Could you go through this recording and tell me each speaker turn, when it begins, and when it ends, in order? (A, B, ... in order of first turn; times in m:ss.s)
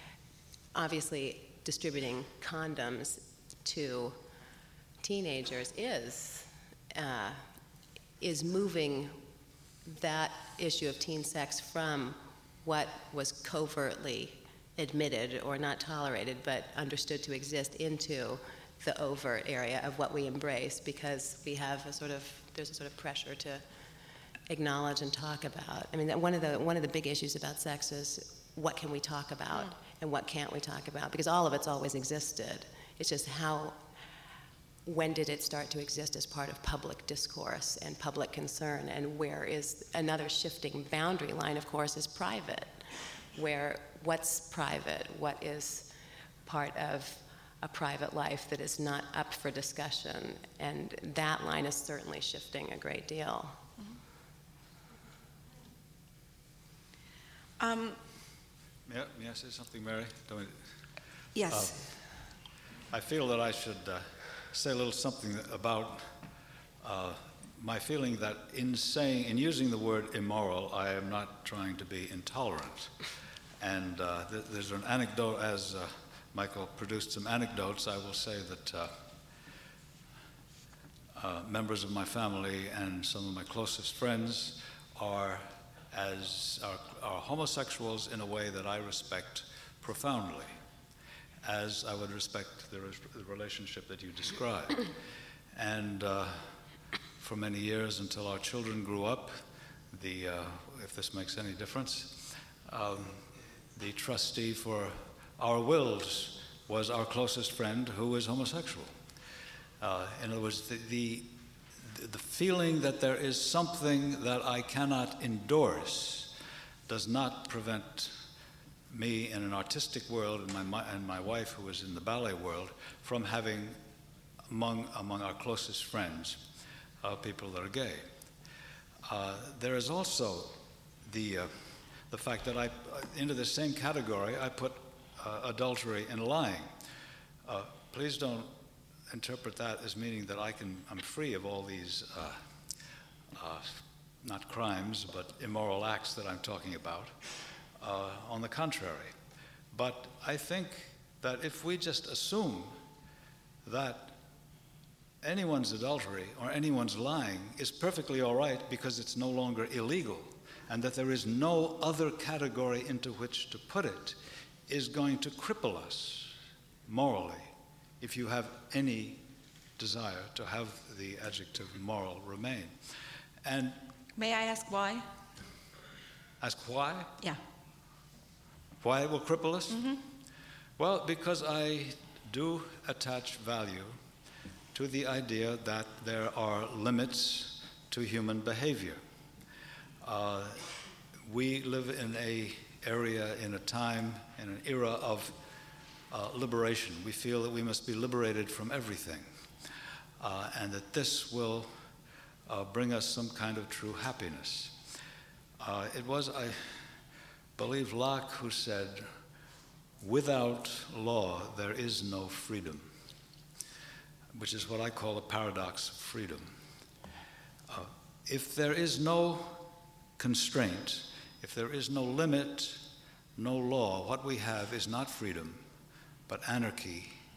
0:00.7-0:04.2 A
0:05.0-0:07.5 A
0:08.2-0:09.2 A
0:09.8-0:23.6 A
0:24.5-0:33.8 A
0:34.8-0:45.9 A
0:46.4-0:53.6 A
0:57.6-0:58.0 B
0:58.8-1:00.6 C
1:01.3-1:01.7 B
1:01.5-1:01.9 C
1:02.9-1:06.2 C
1:06.8-1:13.0 C
1:13.6-1:19.0 C
1:21.1-1:30.6 C
1:31.4-1:34.9 C
1:35.5-1:36.6 C
1:37.2-1:48.9 C
1:49.8-1:56.4 C
1:56.9-1:58.2 C
1:58.9-2:03.8 C
2:04.5-2:06.5 C
2:07.0-2:08.1 C
2:09.0-2:16.8 C
2:17.4-2:18.5 C
2:19.1-2:22.4 C
2:23.3-2:27.2 C
2:27.8-2:29.1 C
2:29.7-2:32.8 C
2:33.6-2:34.2 C
2:35.2-2:49.2 C
2:49.8-2:52.8 C
2:53.4-2:53.8 C
2:54.2-2:55.0 B
2:56.4-2:57.1 C
2:58.8-2:59.9 C
2:59.7-3:00.0 B
3:00.8-3:04.0 C
3:04.7-3:09.0 C
3:10.0-3:15.4 C
3:16.1-3:19.3 C
3:20.2-3:21.8 C
3:22.5-3:24.8 C
3:25.6-3:26.9 C
3:27.6-3:29.1 C
3:30.0-3:32.9 C
3:34.3-3:36.6 C
3:37.7-3:45.6 C
3:46.3-3:47.2 C